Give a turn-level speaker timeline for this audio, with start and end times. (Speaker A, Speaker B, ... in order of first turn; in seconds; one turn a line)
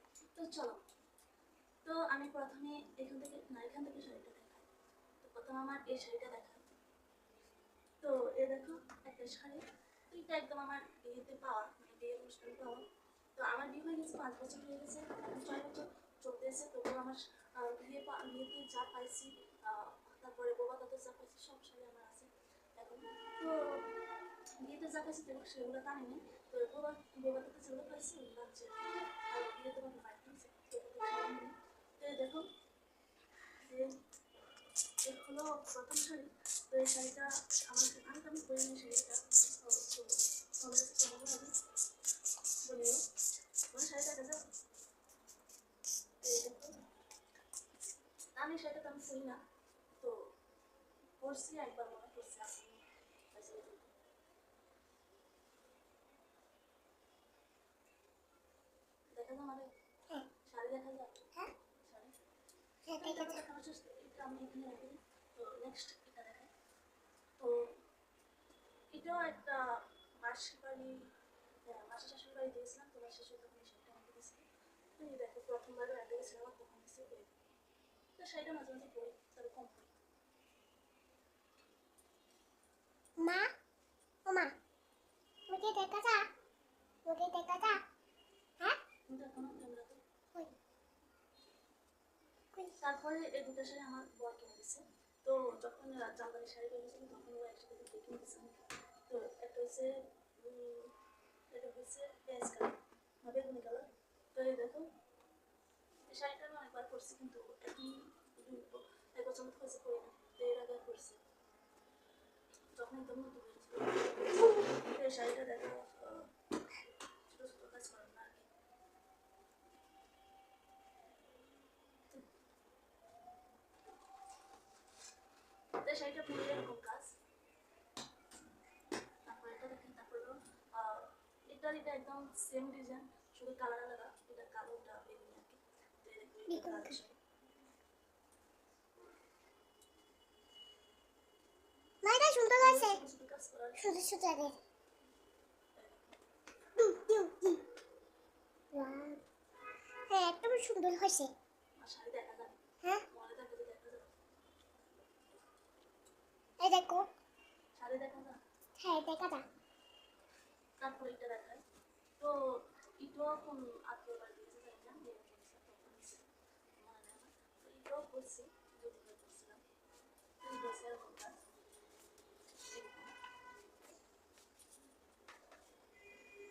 Speaker A: 0.3-0.8
Speaker A: 1.8-4.7
Speaker A: 5.2-6.7
Speaker A: 8.0-12.8
Speaker A: 13.3-23.9
Speaker A: 24.6-32.5
Speaker A: 33.6-33.9
Speaker A: 35.0-41.5
Speaker A: 42.6-43.0
Speaker A: 43.7-44.4
Speaker A: 46.2-46.7
Speaker A: 48.3-49.4
Speaker A: 51.2-52.8
Speaker A: 53.3-53.9
Speaker A: 59.1-59.7
Speaker A: 60.5-61.1
Speaker A: 61.8-62.1
Speaker B: 62.9-63.4
Speaker A: 63.0-66.5
Speaker A: 68.9-69.6
Speaker A: 70.2-71.0
Speaker A: 71.7-77.3
Speaker A: 78.2-79.9
Speaker B: 83.2-83.5
Speaker B: 84.2-84.5
Speaker B: 85.5-86.3
Speaker B: 87.1-87.8
Speaker A: 89.1-90.0
Speaker B: 92.5-92.8
Speaker A: 92.8-100.9
Speaker A: 101.5-104.9
Speaker A: 106.1-111.2
Speaker A: 112.8-116.3
Speaker A: 117.3-118.5
Speaker A: 125.8-127.1
Speaker A: 129.2-137.2
Speaker B: 136.5-137.0
Speaker B: 142.0-143.0
Speaker A: 142.6-144.0
Speaker B: 143.8-144.5
Speaker A: 145.8-146.2
Speaker B: 146.8-147.6
Speaker B: 148.7-149.2
Speaker B: 150.1-151.3
Speaker A: 151.8-152.6
Speaker A: 153.1-154.0
Speaker B: 156.6-157.1
Speaker A: 157.7-158.4
Speaker B: 158.8-159.4
Speaker A: 160.8-161.6
Speaker A: 163.0-169.6
Speaker A: 170.4-171.5
Speaker A: 172.6-173.1